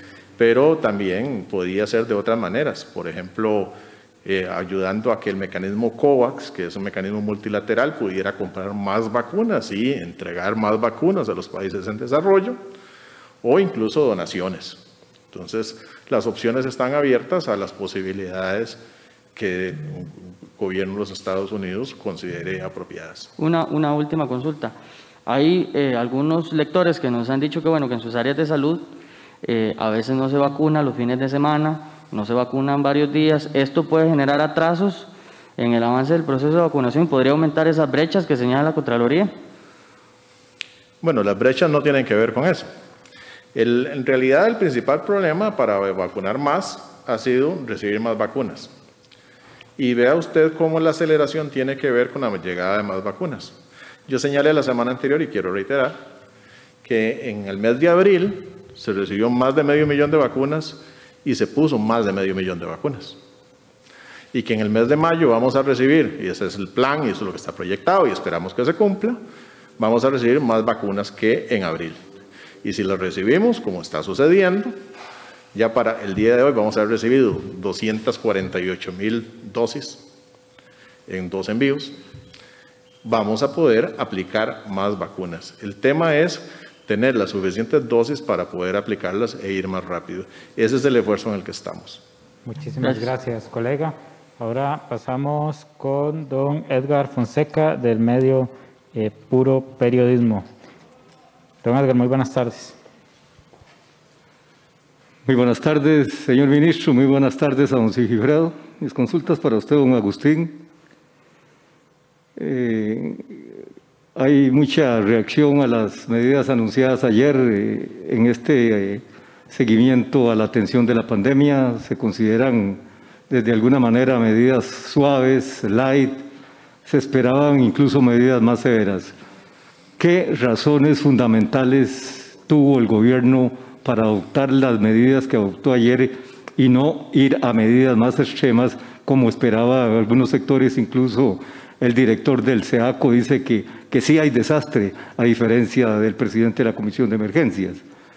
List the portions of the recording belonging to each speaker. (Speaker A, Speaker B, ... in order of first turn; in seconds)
Speaker A: 0.4-12.6, 13.4-18.8, 19.3-23.3, 41.0-42.7, 43.5-48.7, 49.8-53.5, 54.1-56.0, 56.8-63.2, 64.3-69.2, 69.8-72.0, 72.6-74.7, 75.5-80.1, 81.1-82.0, 83.0-92.0
Speaker B: 23.4-24.7, 25.2-28.9, 29.4-39.3, 92.8-93.1
Speaker C: 92.5-100.5, 101.6-102.8
Speaker D: 105.2-110.6, 112.4-113.4, 114.1-126.2, 126.8-129.1, 130.0-147.8